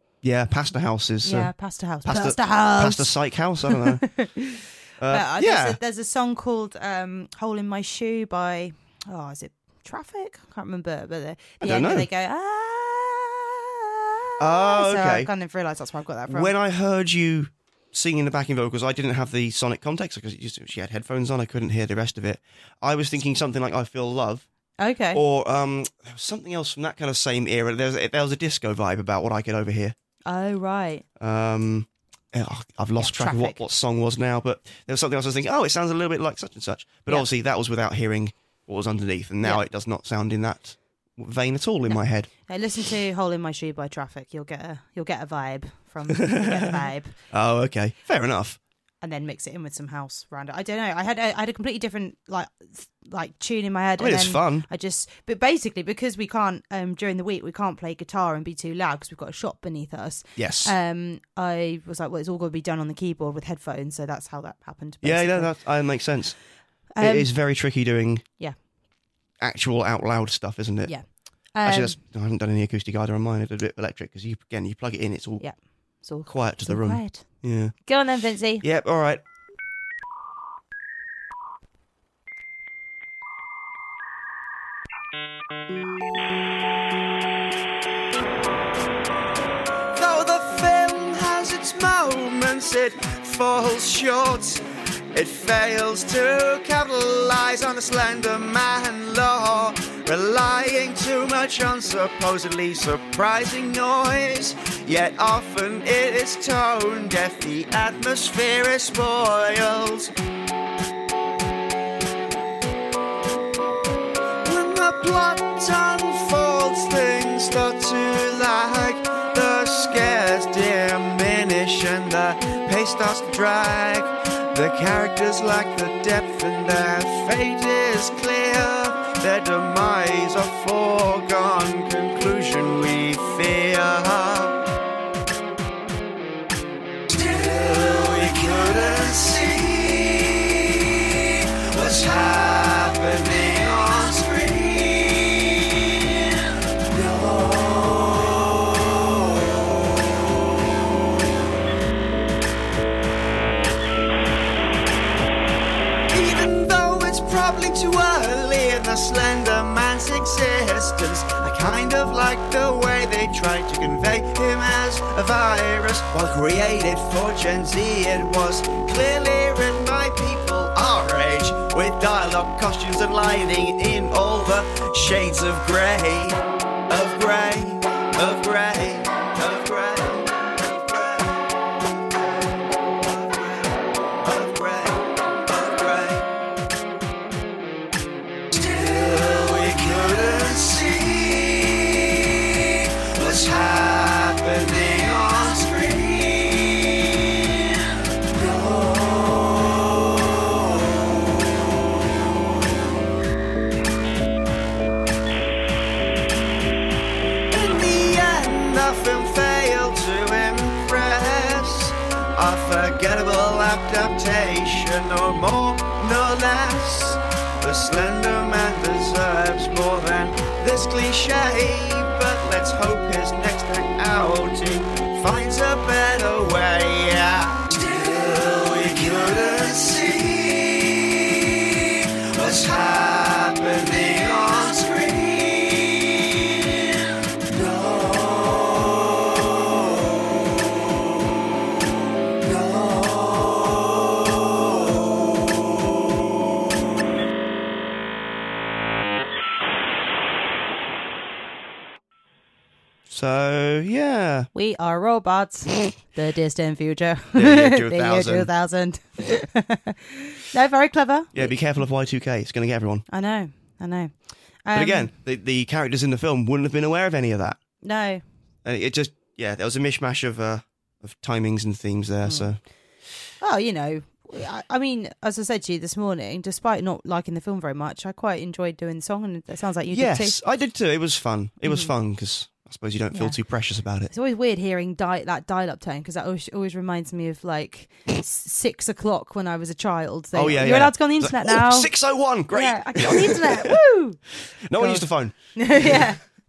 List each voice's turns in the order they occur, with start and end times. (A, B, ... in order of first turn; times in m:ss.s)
0:00.2-0:01.5 A
0:01.2-0:03.1 B
0:02.0-0:04.1 A
0:03.6-0:16.5 B
0:05.0-0:05.8 A
0:11.6-0:12.1 A
0:14.4-0:15.3 A
0:16.3-0:24.5 A
0:24.8-0:25.2 B
0:25.1-0:30.0 A
0:30.3-0:31.0 B
0:31.2-0:42.3 A
0:33.0-0:33.6 B
0:41.9-0:47.2 B
0:46.3-0:46.8 A
0:47.3-0:48.6 A
0:49.0-1:05.5 B
0:54.0-0:54.7 A
1:00.4-1:00.7 A
1:05.0-1:06.4 A
1:06.9-1:07.3 B
1:07.0-1:08.2 A
1:09.4-1:10.9 A
1:10.9-1:12.0 B
1:11.6-1:15.4 A
1:15.4-1:17.2 B
1:16.3-1:17.8 A
1:17.8-1:18.6 B
1:18.6-1:19.2 A
1:29.9-1:50.1 A
1:54.4-2:14.6 A
2:17.1-2:20.7 A
2:21.4-2:25.2 A
2:36.1-2:56.4 A
2:56.9-3:01.4 A
3:03.1-3:03.5 A
3:04.2-3:06.2 A
3:08.5-3:12.2 A
3:12.8-3:16.7 A
3:18.6-3:18.9 A
3:27.5-3:51.4 A
3:52.0-3:56.0 A
4:13.1-4:14.5 A
4:14.5-4:21.5 B
4:17.4-4:18.5 A
4:21.3-4:23.1 A
4:23.1-4:25.1 B
4:24.7-4:27.6 A
4:27.8-4:28.2 B
4:28.6-4:32.6 A
4:32.2-4:32.5 B
4:33.4-4:40.4 B
4:39.9-4:44.1 A
4:41.7-4:41.9 B
4:44.1-4:51.9 B
4:50.3-4:53.8 A
4:52.5-4:54.2 B
4:54.4-4:56.1 A
4:54.8-4:56.2 B